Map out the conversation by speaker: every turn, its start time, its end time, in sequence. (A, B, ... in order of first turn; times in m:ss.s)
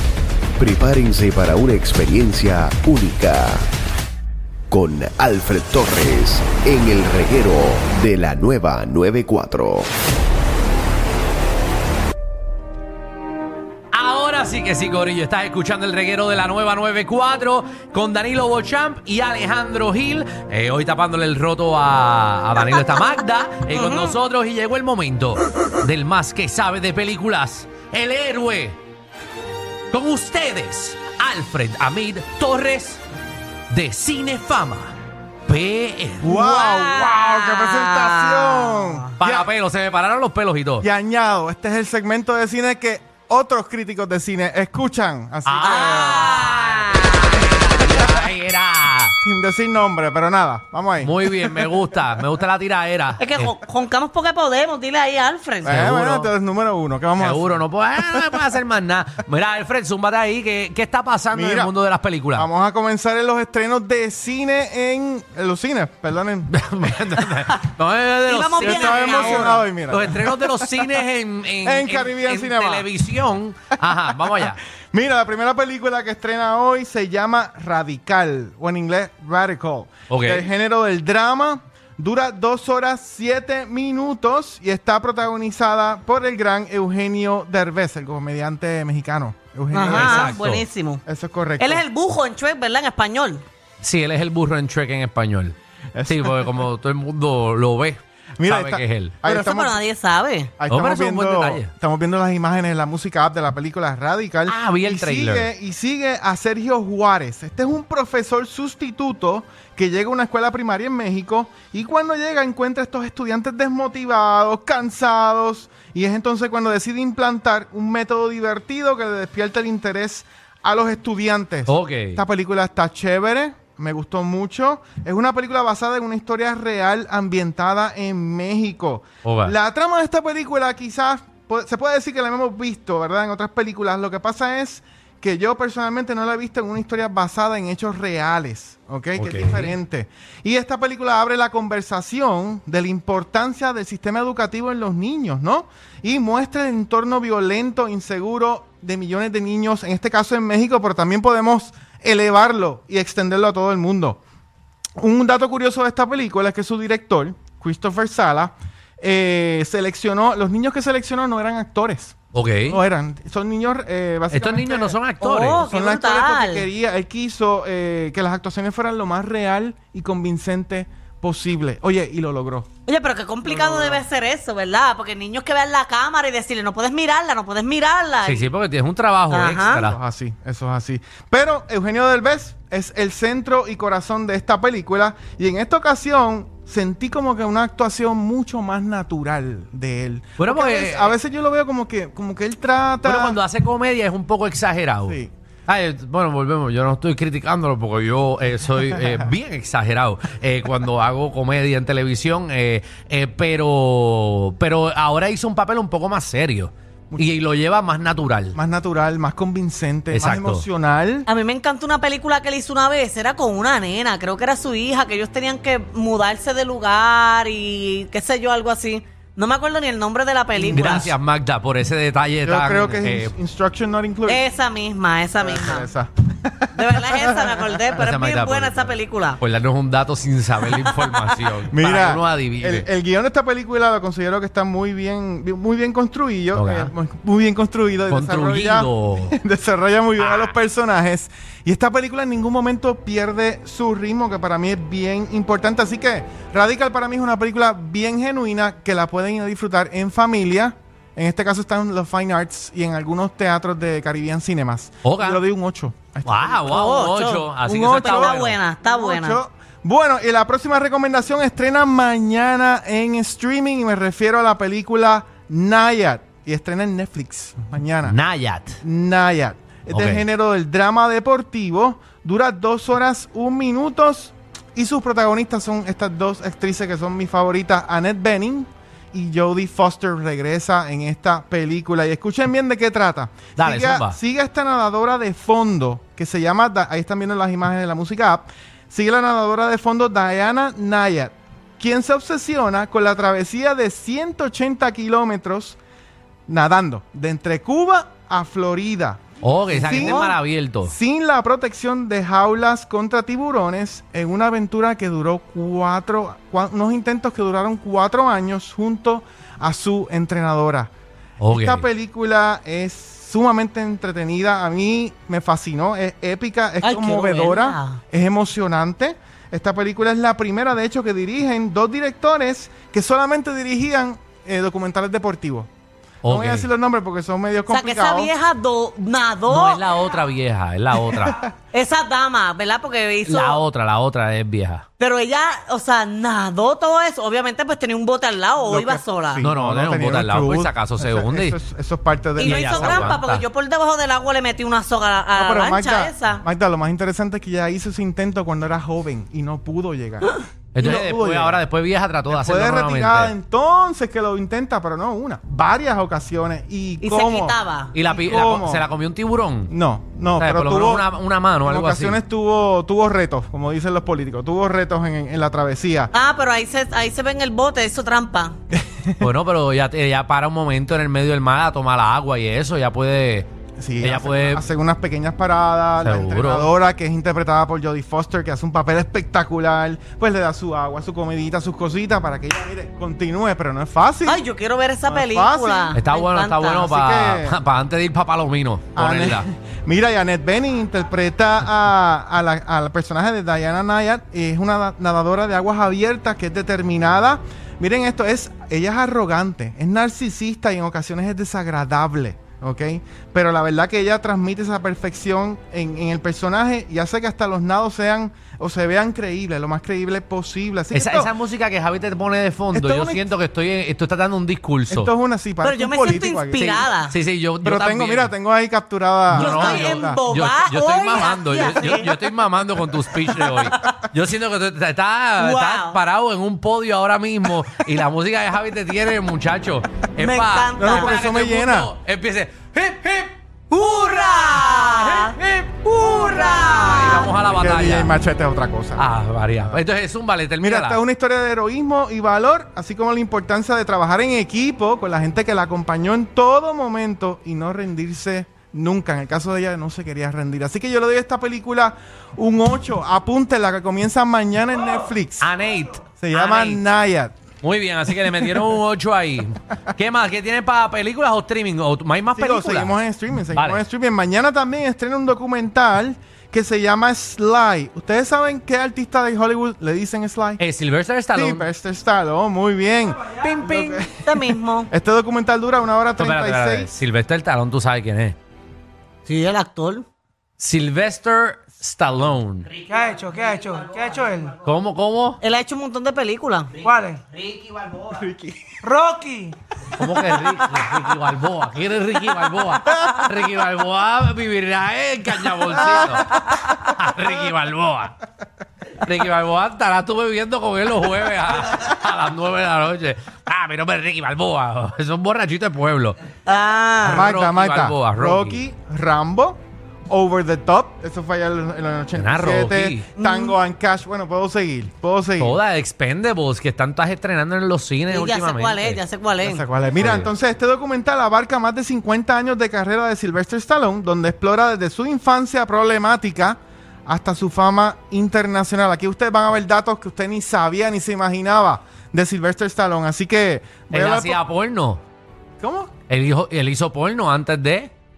0:00.6-0:03.7 A
0:04.7-0:09.9 A
0:13.9-0:28.8 B
0:23.7-0:24.2 C
0:29.9-0:33.0 B
0:33.7-0:34.9 B
0:35.5-0:36.4 B
0:36.2-0:39.5 D
0:36.3-0:39.1 C
0:39.2-0:40.8 B
0:40.8-0:46.3 D
0:45.4-0:49.2 B
0:45.6-0:47.7 C
0:49.2-0:51.8 D
0:51.0-0:53.5 B
0:53.2-0:56.0 C
0:55.6-0:57.5 D
0:55.7-0:56.2 B
0:57.2-1:02.5 B
1:01.3-1:01.7 D
1:02.3-1:07.4 D
1:06.5-1:14.6 B
1:08.3-1:09.6 C
1:08.6-1:10.9 D
1:11.6-1:12.9 D
1:14.9-1:30.4 D
1:20.1-1:20.5 B
1:29.7-1:31.0 C
1:29.9-1:30.6 B
1:31.0-1:31.8 D
1:31.6-1:33.4 C
1:33.8-1:35.5 B
1:35.9-1:36.5 D
1:36.1-1:39.1 B
1:38.4-1:39.8 D
1:39.2-1:40.5 C
1:40.6-2:34.2 D
1:40.7-1:41.7 B
1:44.5-1:45.5 B
2:01.7-2:02.2 B
2:09.2-2:09.5 B
2:19.2-2:19.7 B
2:35.0-2:45.0 D
2:42.3-2:42.8 B
2:44.3-2:45.6 B
2:45.2-2:46.7 C
2:45.5-2:52.7 D
2:52.8-2:58.5 C
2:53.4-2:54.0 D
2:58.2-3:00.0 B
2:59.3-2:59.8 C
2:59.7-3:13.4 D
3:10.4-3:11.1 B
3:13.0-3:28.6 B
3:28.5-3:31.3 D
3:30.1-3:30.6 B
3:31.3-3:41.1 C
3:40.6-3:43.3 B
3:40.7-3:41.0 D
3:42.4-3:44.4 D
3:44.3-3:45.9 C
3:45.4-3:47.8 D
3:46.7-3:49.4 C
3:48.0-3:52.8 B
3:51.7-4:16.7 D
3:56.5-3:56.9 B
3:58.1-3:59.3 B
4:00.2-4:00.6 B
4:15.0-4:15.4 B
4:16.2-4:18.6 B
4:16.7-4:19.4 C
4:17.6-4:28.2 D
4:28.0-4:28.8 B
4:28.8-4:55.8 D
4:29.9-4:30.2 B
4:43.6-4:44.2 B
4:56.5-5:10.9 D
4:59.4-5:00.9 B
4:59.9-5:00.3 C
5:11.4-5:11.8 B
5:11.5-5:25.7 D
5:16.8-5:18.0 C
5:26.2-5:26.7 B
5:26.2-5:28.3 D
5:27.7-5:29.8 C
5:29.5-5:31.4 B
5:31.1-5:31.5 D
5:31.7-5:33.6 C
5:33.2-5:34.8 B
5:35.0-5:39.4 C
5:38.6-5:43.2 D
5:39.4-5:41.6 B
5:42.4-5:46.4 C
5:42.4-5:43.4 B
5:45.3-5:51.6 D
5:50.7-5:53.4 B
5:52.3-5:58.8 D
5:57.0-5:57.9 C
5:57.9-5:59.7 B
5:59.7-6:01.1 D
6:00.4-6:02.2 B
6:01.6-6:06.1 D
6:06.1-6:08.6 C
6:08.7-6:09.3 D
6:09.2-6:13.5 B
6:13.8-6:24.4 D
6:14.0-6:14.6 B
6:16.0-6:16.7 B
6:24.2-6:26.9 C
6:25.0-6:26.0 D
6:25.9-6:29.4 B
6:26.8-6:27.6 D
6:29.0-6:51.3 D
6:50.9-6:55.1 B
6:52.7-6:53.3 D
6:54.9-6:56.7 D
6:55.6-6:57.1 C
6:56.6-6:58.3 B
6:57.6-7:00.2 D
6:59.3-7:18.1 B
6:59.4-7:02.2 C
7:03.5-7:03.9 C
7:05.4-7:06.0 C
7:10.2-7:11.2 C
7:10.8-7:11.9 D
7:13.7-7:15.4 C
7:15.9-7:17.3 C
7:17.5-7:19.0 D
7:19.0-7:21.0 B
7:20.6-7:35.5 D
7:35.4-7:36.8 B
7:36.2-7:37.3 D
7:37.6-7:43.0 B
7:42.3-7:50.6 D
7:43.5-7:43.8 B
7:50.6-7:51.7 B
7:51.3-7:56.9 D
7:53.4-7:54.9 C
7:56.2-7:58.4 B
7:59.2-8:00.0 C
8:00.6-8:02.8 B
8:02.8-8:04.6 E
8:04.6-8:05.4 B
8:05.4-8:06.7 C
8:06.8-8:07.2 E
8:07.7-8:08.0 B
8:08.0-8:08.7 D
8:08.8-8:09.6 E
8:10.0-8:18.2 B
8:12.8-8:13.2 D
8:16.0-8:16.7 D
8:16.4-8:16.7 C
8:19.0-8:26.2 B
8:26.4-8:27.3 C
8:27.0-8:28.6 B
8:27.0-8:35.6 D
8:32.1-8:33.1 B
8:33.2-8:33.6 C
8:35.4-8:39.0 B
8:38.1-8:39.6 C
8:39.4-8:54.4 D
8:40.0-8:40.3 B
8:53.9-8:55.0 B
8:55.6-8:55.9 D
8:56.1-8:57.9 B